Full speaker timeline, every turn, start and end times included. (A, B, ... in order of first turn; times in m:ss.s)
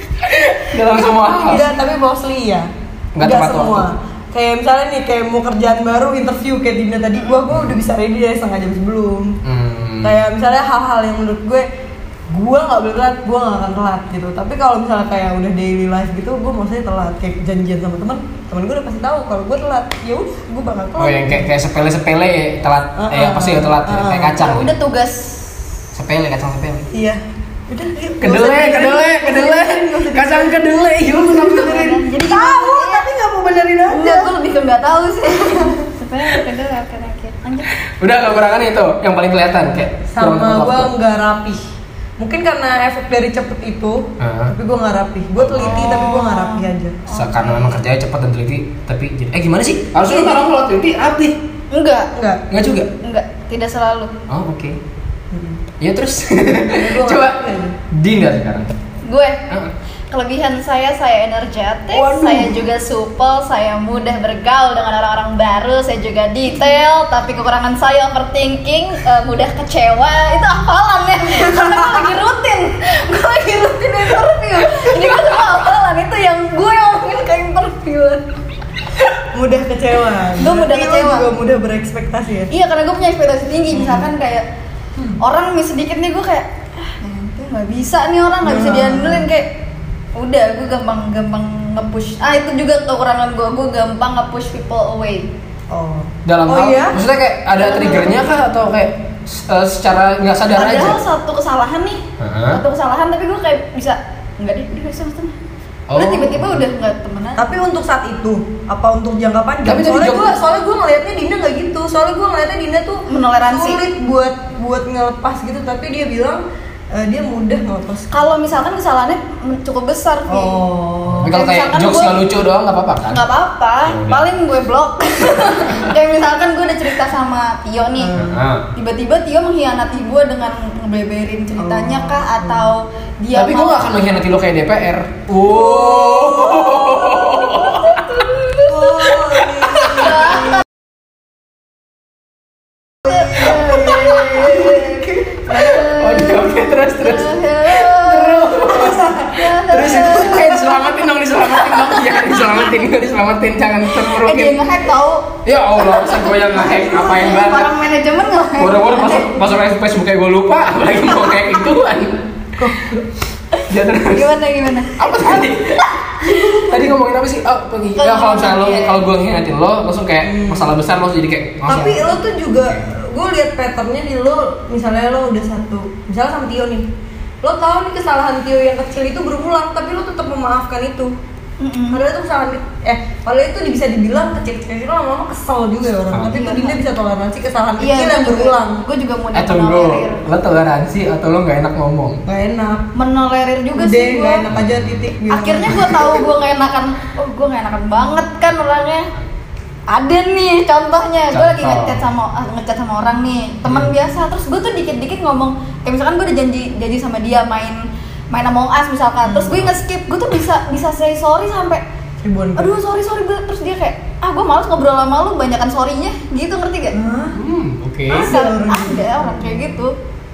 0:00.2-0:01.7 A
0:01.5-0:02.7 B
0:03.2-0:03.9 A
0:03.2-0:09.4 B
0:07.5-0:07.8 A
0:09.4-0:10.2 A
0:10.0-0:11.7 B
0:12.3-0:21.5 B
0:21.0-0:24.7 A
0:23.0-0:24.4 B
0:24.4-0:25.6 C
0:25.9-0:26.9 A
0:26.9-0:34.3 B
0:28.2-0:32.0 A
0:31.4-0:33.1 C
0:33.9-0:37.7 C
0:38.0-0:40.9 A
0:40.1-0:41.6 B
0:42.2-0:47.6 B
0:44.2-0:44.6 A
0:45.4-0:46.1 A
0:45.6-0:47.8 C
0:47.1-0:51.4 A
0:50.1-0:50.4 B
0:51.7-0:52.1 C
0:52.1-0:52.4 B
0:52.5-0:52.9 A
0:53.0-0:54.1 C
0:54.3-0:54.8 A
0:55.3-0:55.6 B
0:55.8-0:57.4 A
0:56.7-0:57.8 B
0:57.9-0:58.7 A
0:59.0-0:59.5 C
1:00.1-1:18.2 C
1:02.0-1:02.4 B
1:11.4-1:12.0 B
1:14.6-1:15.2 B
1:19.2-1:22.5 B
1:20.4-1:21.3 C
1:22.5-1:24.5 C
1:23.7-1:24.1 B
1:25.2-1:29.5 C
1:28.4-1:29.3 B
1:30.2-1:35.3 C
1:35.7-1:37.0 B
1:36.3-1:41.0 A
1:37.6-1:38.2 C
1:40.6-1:45.4 C
1:42.2-1:42.6 A
1:45.9-1:46.6 A
1:45.9-1:47.5 C
1:47.4-1:58.2 B
1:49.6-1:50.4 A
1:53.1-1:53.8 C
1:58.1-2:00.6 C
2:00.3-2:01.3 B
2:01.1-2:03.2 A
2:01.3-2:02.2 C
2:03.1-2:08.1 C
2:03.9-2:04.2 A
2:08.0-2:08.4 B
2:08.2-2:08.7 A
2:08.8-2:13.9 C
2:11.6-2:12.7 B
2:13.3-2:18.4 A
2:15.4-2:19.1 C
2:18.6-2:20.5 B
2:19.2-2:20.4 A
2:19.8-2:20.6 C
2:23.1-2:25.9 B
2:23.1-2:30.8 C
2:25.5-2:34.6 A
2:28.8-2:29.1 B
2:29.8-2:30.6 B
2:31.4-2:32.9 C
2:33.8-2:39.4 C
2:35.4-2:37.7 A
2:38.6-2:42.2 A
2:42.6-2:42.9 B
2:43.7-2:44.3 A
2:44.1-2:45.5 C
2:44.9-2:52.2 A
2:46.2-2:46.7 C
2:48.0-2:49.0 C
2:50.2-2:50.8 B
2:51.7-2:56.9 B
2:57.4-3:01.1 B
3:01.6-3:02.0 C
3:01.9-3:08.8 B
3:06.3-3:06.8 C
3:07.8-3:10.2 C
3:09.3-3:12.2 A
3:12.3-3:12.9 B
3:13.0-3:14.5 C
3:13.8-3:16.0 B
3:14.5-3:15.1 A
3:15.3-3:19.1 C
3:15.7-3:16.0 A
3:19.9-3:31.8 C
3:21.3-3:22.0 A
3:29.2-3:29.5 B
3:32.2-3:32.8 B
3:32.6-3:37.0 C
3:36.9-3:37.4 B
3:37.4-3:38.3 A
3:38.1-3:39.9 C
3:38.1-3:39.7 B